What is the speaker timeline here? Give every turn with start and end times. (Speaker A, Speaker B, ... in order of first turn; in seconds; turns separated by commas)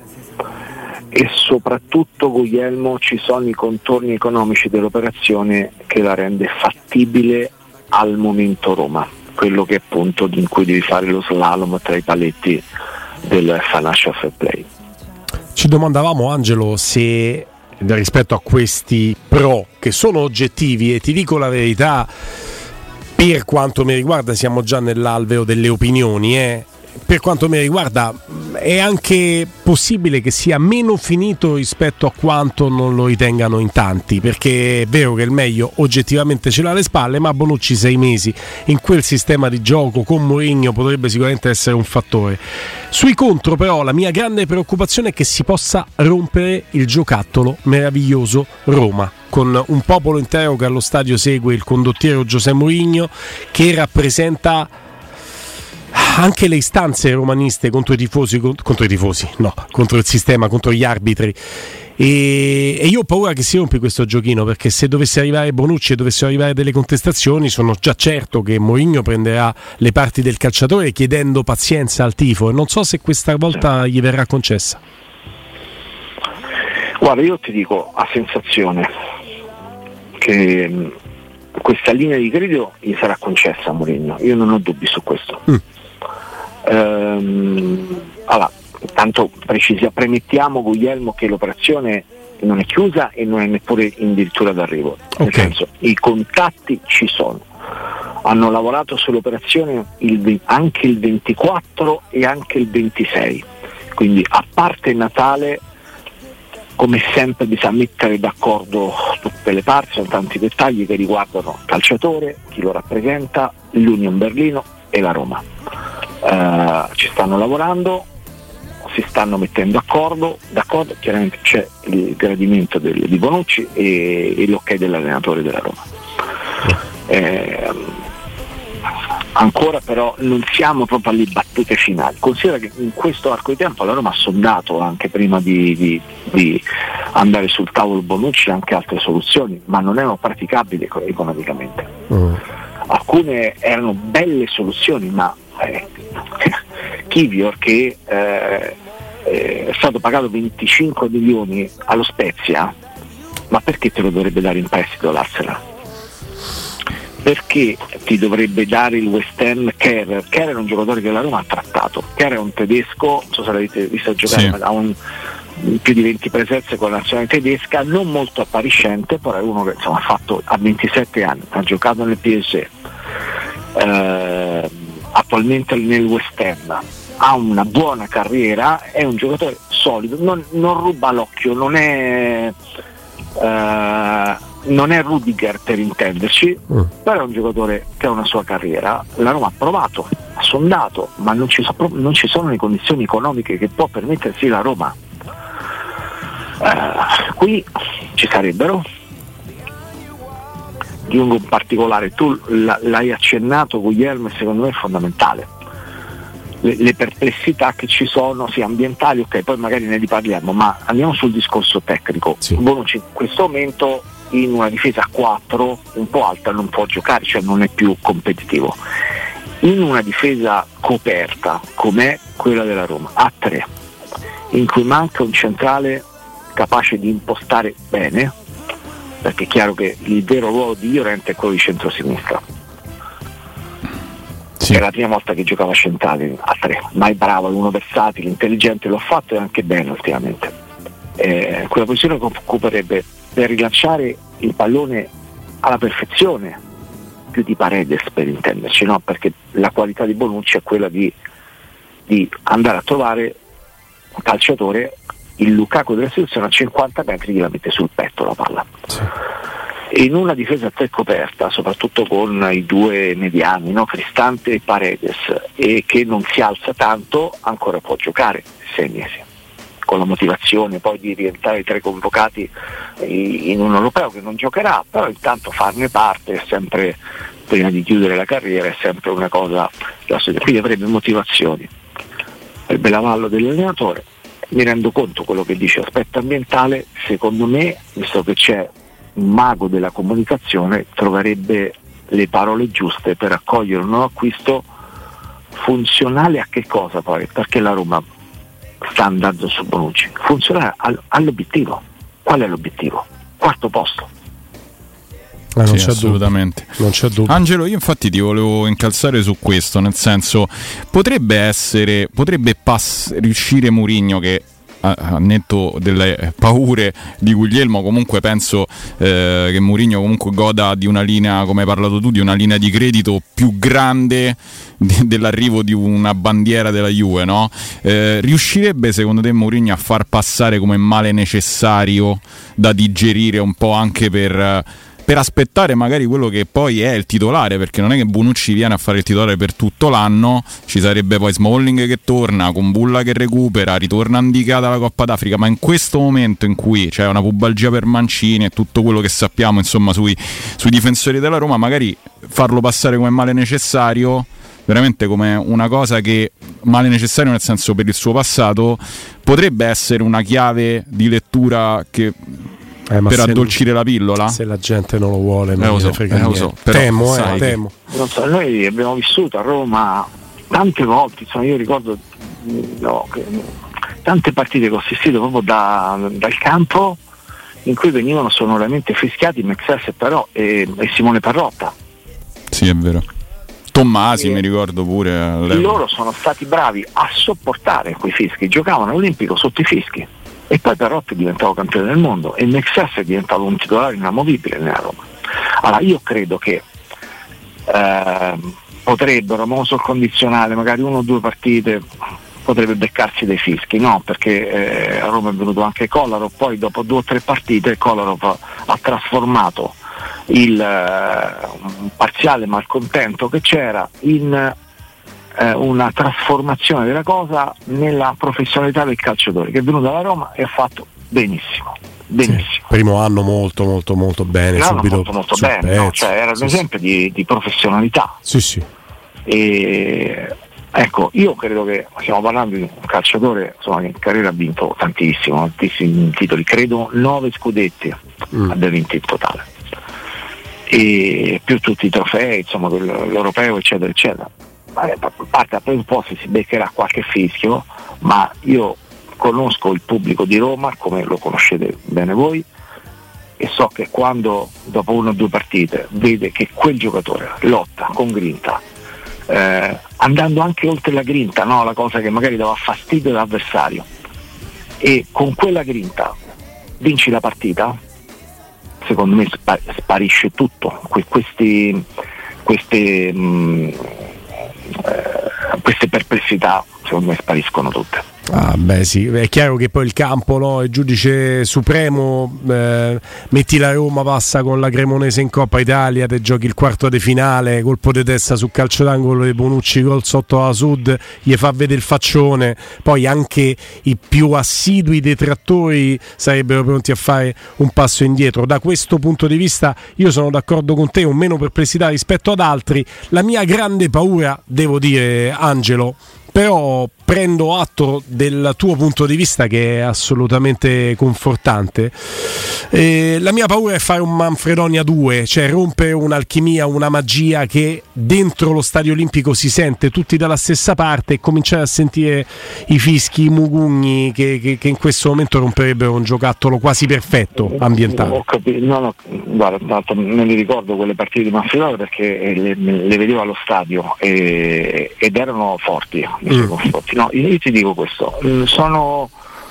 Speaker A: 1.1-12.6, Speaker A: 13.2-14.7, Speaker B: 15.5-22.1, Speaker B: 23.2-54.7, Speaker B: 55.9-61.4, Speaker B: 62.0-74.8, Speaker A: 77.0-78.9, Speaker A: 80.2-80.9, Speaker A: 81.6-85.6, Speaker A: 86.6-97.4, Speaker B: 95.2-95.5, Speaker A: 98.2-105.6, Speaker A: 106.8-115.4, Speaker A: 116.2-118.1, Speaker A: 118.8-125.8, Speaker A: 127.1-127.9, Speaker A: 129.3-141.9, Speaker B: 142.1-142.4, Speaker A: 142.9-152.7, Speaker A: 153.5-155.6, Speaker A: 157.2-165.0, Speaker A: 165.6-172.7, Speaker A: 173.7-182.5, Speaker A: 183.3-194.9, Speaker A: 196.6-198.8, Speaker A: 201.1-205.5, Speaker A: 206.6-218.8, Speaker A: 219.6-223.7, Speaker A: 224.5-228.3, Speaker A: 229.2-232.4, Speaker A: 234.7-240.5, Speaker A: 241.2-245.1, Speaker A: 245.6-246.6, Speaker A: 247.3-251.1, Speaker A: 252.1-253.4, Speaker A: 254.2-258.7, Speaker A: 259.9-269.2, Speaker A: 269.9-281.7, Speaker A: 282.7-294.7, Speaker A: 295.5-298.0, Speaker A: 298.8-304.1, Speaker B: 305.5-307.4, Speaker C: 305.7-362.4, Speaker B: 362.9-363.6, Speaker C: 363.1-364.4, Speaker B: 364.3-367.7, Speaker C: 365.6-367.6, Speaker A: 367.9-373.5, Speaker A: 374.0-377.0, Speaker A: 377.6-381.7, Speaker C: 382.5-383.0, Speaker C: 383.7-385.8, Speaker A: 385.5-395.1, Speaker A: 395.6-396.6, Speaker A: 397.7-401.9, Speaker A: 402.4-409.8, Speaker A: 410.3-414.6, Speaker A: 415.4-422.7, Speaker B: 422.3-426.1, Speaker A: 424.6-428.2, Speaker B: 428.2-428.7, Speaker A: 429.2-439.5, Speaker A: 440.7-452.5, Speaker A: 453.4-458.6, Speaker A: 459.3-463.9, Speaker A: 464.8-466.1, Speaker A: 466.8-467.8, Speaker A: 468.8-471.9, Speaker A: 472.4-473.9, Speaker A: 474.8-478.1, Speaker B: 478.3-528.2, Speaker A: 527.5-539.1